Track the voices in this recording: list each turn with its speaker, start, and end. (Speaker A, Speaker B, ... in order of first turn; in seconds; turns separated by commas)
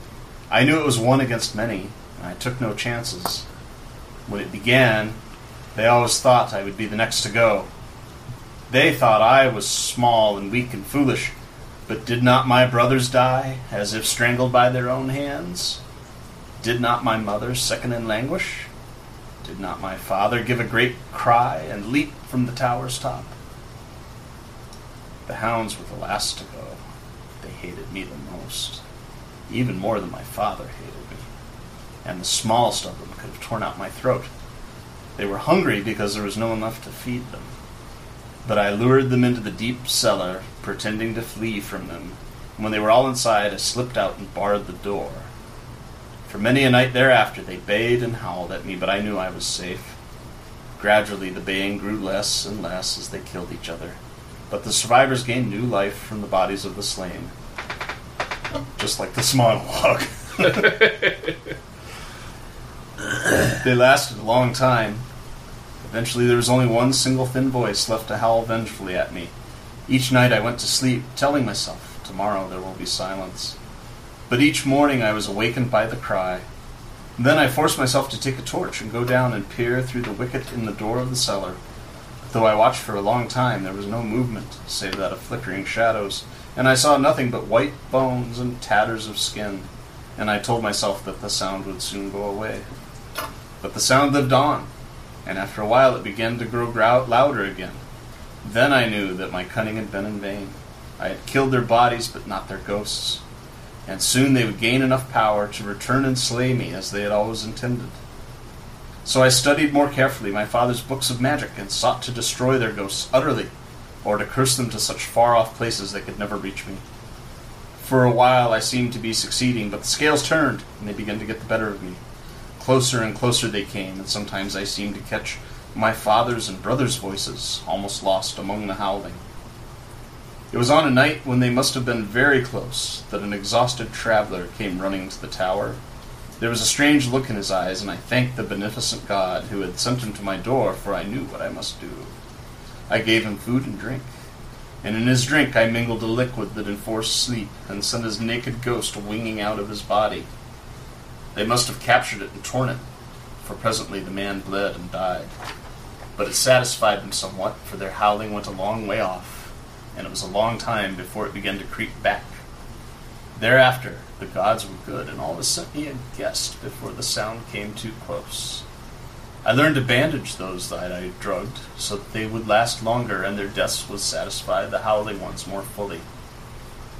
Speaker A: 0.5-3.4, Speaker A: 4.3-5.2, Speaker A: 5.7-7.7, Speaker A: 8.7-11.3, Speaker A: 11.9-15.8, Speaker A: 16.6-18.7, Speaker A: 19.4-23.3, Speaker A: 25.2-26.8, Speaker A: 27.4-28.8, Speaker A: 29.5-31.2, Speaker A: 32.0-34.3, Speaker A: 35.1-37.5, Speaker A: 38.4-45.3, Speaker A: 46.3-49.9, Speaker A: 50.8-54.0, Speaker A: 54.5-57.3, Speaker A: 58.8-61.0, Speaker A: 63.5-65.0, Speaker A: 65.8-69.3, Speaker A: 69.9-73.5, Speaker A: 74.3-76.4, Speaker A: 77.2-81.6, Speaker A: 82.2-92.7, Speaker A: 93.6-94.7, Speaker A: 95.2-97.8, Speaker A: 98.4-103.2, Speaker A: 103.8-108.0, Speaker A: 109.0-113.5, Speaker A: 114.0-116.8, Speaker A: 117.8-122.0, Speaker A: 122.6-129.2, Speaker A: 130.5-135.8, Speaker A: 136.4-142.1, Speaker A: 142.9-144.1, Speaker A: 144.8-150.3, Speaker A: 151.3-152.8, Speaker A: 153.4-155.3, Speaker A: 156.2-162.3, Speaker A: 163.3-168.6, Speaker A: 169.4-176.0